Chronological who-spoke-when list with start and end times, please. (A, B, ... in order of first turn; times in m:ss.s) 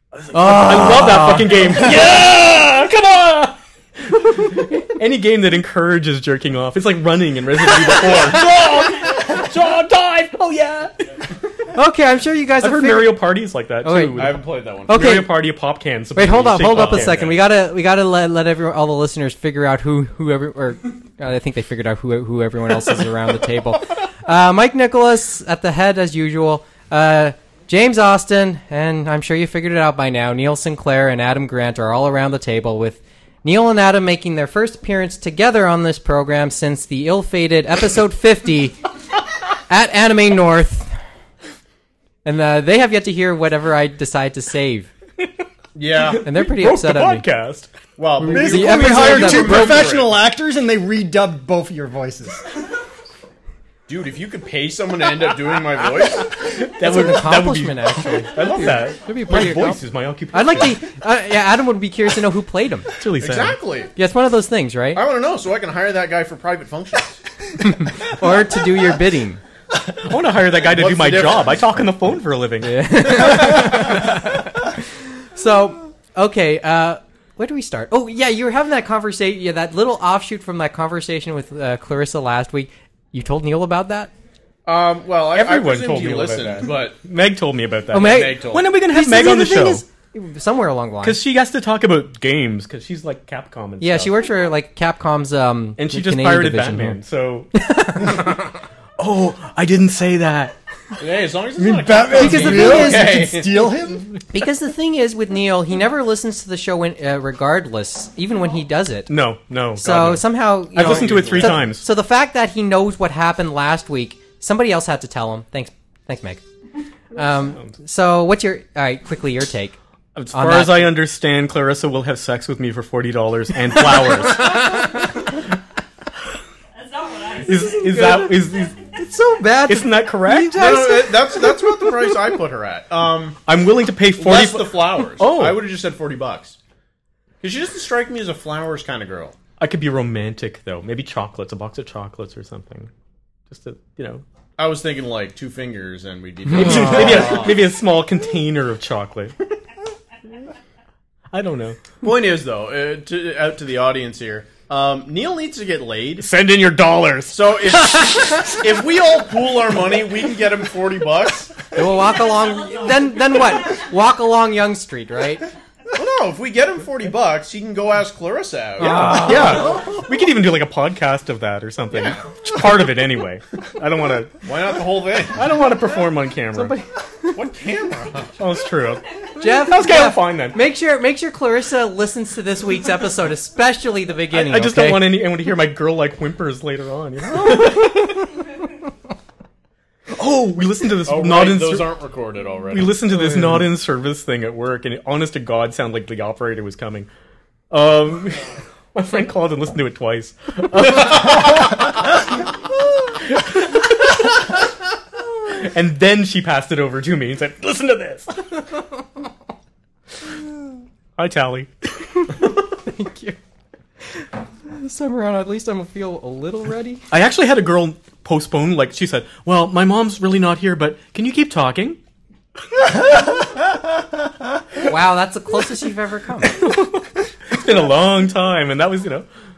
0:00.2-0:11.0 A
0:00.3-0:01.9 B
0:11.7-0:13.2 B
0:12.6-0:17.3 A
0:13.8-0:15.3 B
0:14.1-0:15.1 C
0:16.2-0:38.8 B
0:16.5-0:17.4 C
0:39.7-0:40.9 B
0:42.2-0:44.9 B
0:45.7-0:46.2 C
0:46.1-0:47.7 A
0:46.2-0:47.2 B
0:48.0-0:50.2 C
0:48.2-0:49.9 B
0:48.2-0:52.4 D
0:53.9-0:56.3 C
0:56.3-1:00.8 A
0:56.8-0:59.8 B
1:00.3-1:02.9 B
1:03.0-1:03.6 A
1:03.2-1:03.9 C
1:04.0-1:05.0 B
1:04.9-1:07.2 C
1:07.6-1:09.4 B
1:10.0-1:14.0 A
1:10.7-1:11.7 C
1:12.6-1:14.8 B
1:15.3-1:24.1 B
1:24.6-1:27.0 C
1:25.3-1:29.8 A
1:27.9-1:31.2 B
1:27.9-1:28.6 C
1:31.0-1:34.1 A
1:33.8-1:37.0 B
1:35.8-1:40.5 A
1:37.5-1:38.4 B
1:41.0-1:43.8 C
1:41.6-1:44.1 D
1:42.2-1:43.2 B
1:44.3-1:49.1 B
1:49.1-1:51.8 A
1:49.8-1:56.4 B
1:50.8-1:51.7 C
1:57.1-1:59.8 B
2:00.1-2:04.9 A
2:00.3-2:00.9 B
2:04.5-2:04.8 B
2:06.7-2:08.9 E
2:07.4-2:08.7 A
2:07.9-2:08.4 B
2:09.0-2:11.8 B
2:09.6-2:10.7 A
2:10.5-2:13.4 C
2:13.4-2:15.6 A
2:14.2-2:16.6 C
2:17.4-2:19.3 C
2:19.6-2:22.9 A
2:23.5-2:24.2 A
2:24.6-2:27.6 C
2:26.5-2:29.4 A
2:31.3-2:31.8 A
2:32.0-2:36.2 C
2:36.2-2:38.6 A
2:37.3-2:41.7 C
2:41.7-2:45.4 B
2:42.0-2:43.8 E
2:45.9-2:49.9 C
2:48.8-2:49.7 B
2:48.8-2:54.4 A
2:54.4-2:55.4 C
2:55.3-2:56.8 A
2:56.5-2:57.4 B
2:57.3-2:58.3 C
2:58.4-3:00.6 A
2:59.4-3:05.1 B
3:04.3-3:08.4 A
3:10.1-3:12.0 A
3:11.0-3:13.2 C
3:12.7-3:17.1 A
3:17.7-3:22.1 A
3:20.7-3:21.9 C
3:23.3-3:24.5 A
3:25.5-3:28.6 A
3:31.2-3:31.7 A
3:32.3-3:33.4 B
3:34.2-3:37.0 B
3:37.1-3:42.0 A
3:44.8-3:46.6 B
3:46.4-3:49.3 A